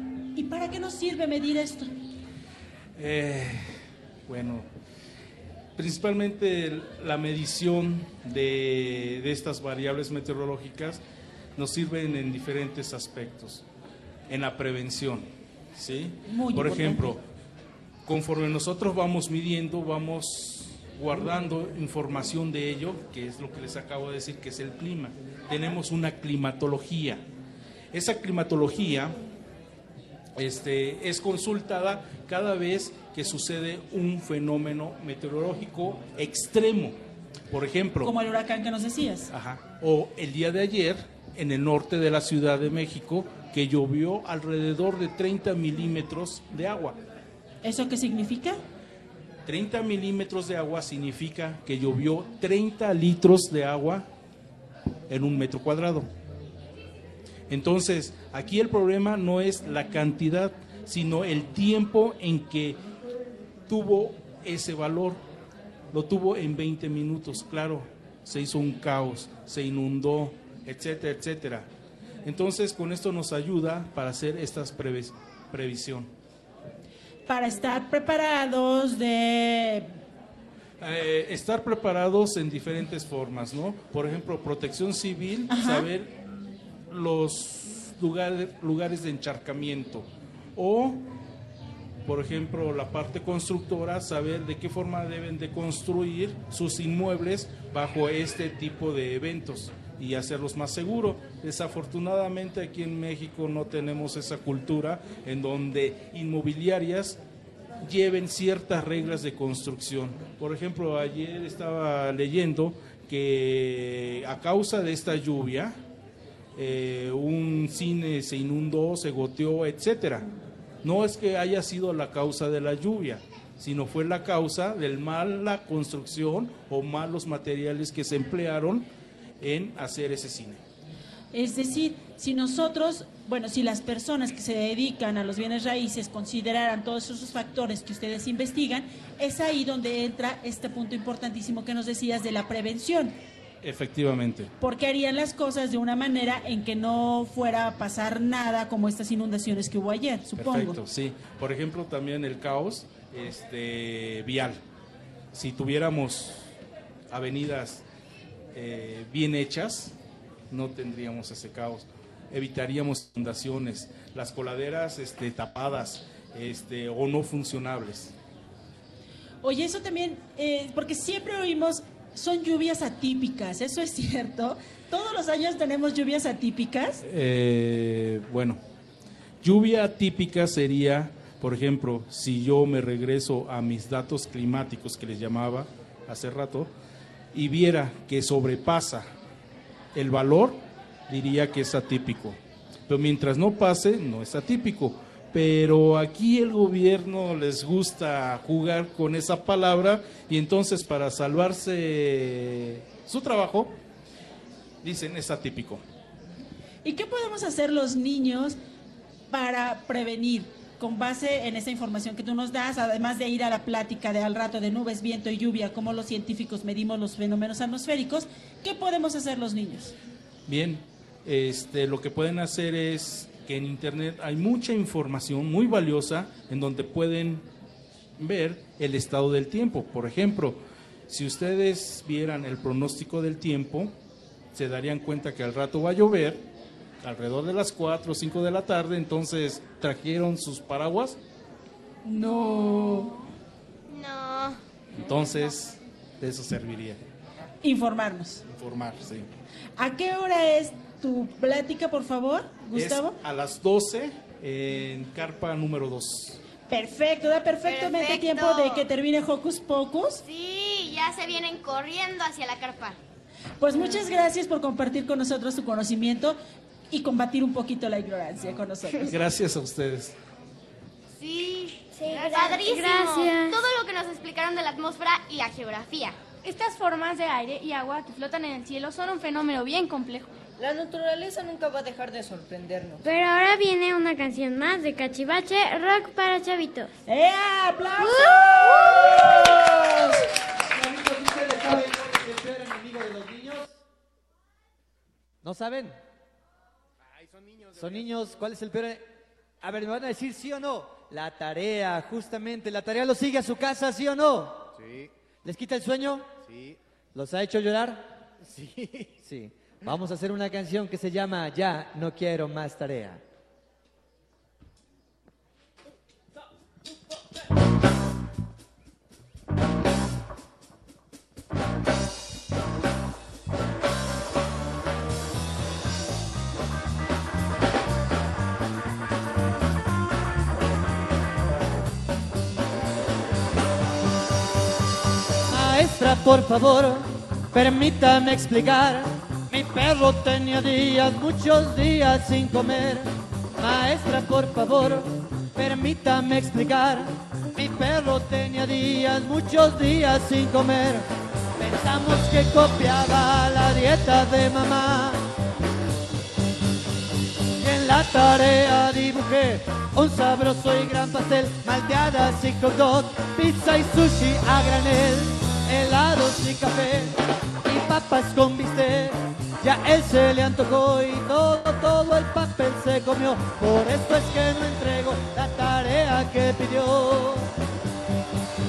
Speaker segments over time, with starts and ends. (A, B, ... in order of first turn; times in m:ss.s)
0:00.3-0:02.0 A
0:03.0-0:04.7 B
0:05.8-0:11.0 B
0:11.6-0:13.6 B
0:14.3-0:17.2 B
0:16.2-0:17.1 A
0:18.0-0:27.2 B
0:27.9-0:29.2 B
0:30.3-0:37.0 B
0:37.5-0:38.1 B
0:38.0-0:39.3 A
0:39.3-0:47.0 B
0:47.6-0:48.6 A
0:49.4-0:54.0 B
0:55.1-0:56.1 B
0:57.5-1:02.8 B
1:03.7-1:05.2 B
1:05.9-1:11.7 B
1:12.2-1:16.1 B
1:17.3-1:20.0 A
1:20.8-1:26.2 B
1:25.5-1:25.9 A
1:26.9-1:31.0 B
1:32.0-1:47.2 B
1:47.8-1:55.8 B
1:56.6-2:00.2 B
2:00.8-2:08.8 B
2:09.4-2:10.6 B
2:11.3-2:23.2 A
2:23.6-2:24.5 B
2:24.6-2:30.8 A
2:30.4-2:34.6 B
2:35.3-2:36.5 B
2:37.1-2:37.8 B
2:38.5-2:39.9 B
2:40.5-2:48.1 B
2:49.4-2:57.0 A
2:57.0-2:58.6 B
2:59.4-3:06.7 B
3:07.3-3:09.1 B
3:09.9-3:23.8 B
3:24.8-3:25.8 B
3:26.8-3:28.6 A
3:29.3-3:39.9 A
3:40.5-3:47.4 B
3:48.2-3:53.9 B
3:54.5-3:56.4 B
3:57.0-4:01.2 B
4:02.0-4:03.1 A
4:02.2-4:03.1 C
4:03.9-4:04.6 C
4:05.0-4:07.0 B
4:07.6-4:08.4 A
4:08.5-4:09.3 B
4:09.8-4:13.2 A
4:12.7-4:16.4 B
4:16.7-4:20.2 A
4:17.6-4:18.8 C
4:20.2-4:23.0 C
4:23.6-4:26.4 A
4:26.9-4:29.1 A
4:29.0-4:30.1 B
4:31.1-4:36.2 C
4:32.0-4:33.6 D
4:36.4-4:40.3 E
4:40.6-4:43.0 F
4:43.0-4:46.9 D
4:47.1-4:50.0 A
4:50.7-4:53.7 G
4:55.4-4:56.0 G
4:57.7-4:59.1 G
4:59.6-5:04.7 G
5:05.4-5:06.3 G
5:07.1-5:08.1 G
5:09.2-5:13.2 G
5:35.5-5:55.2 G
5:57.6-6:17.5 G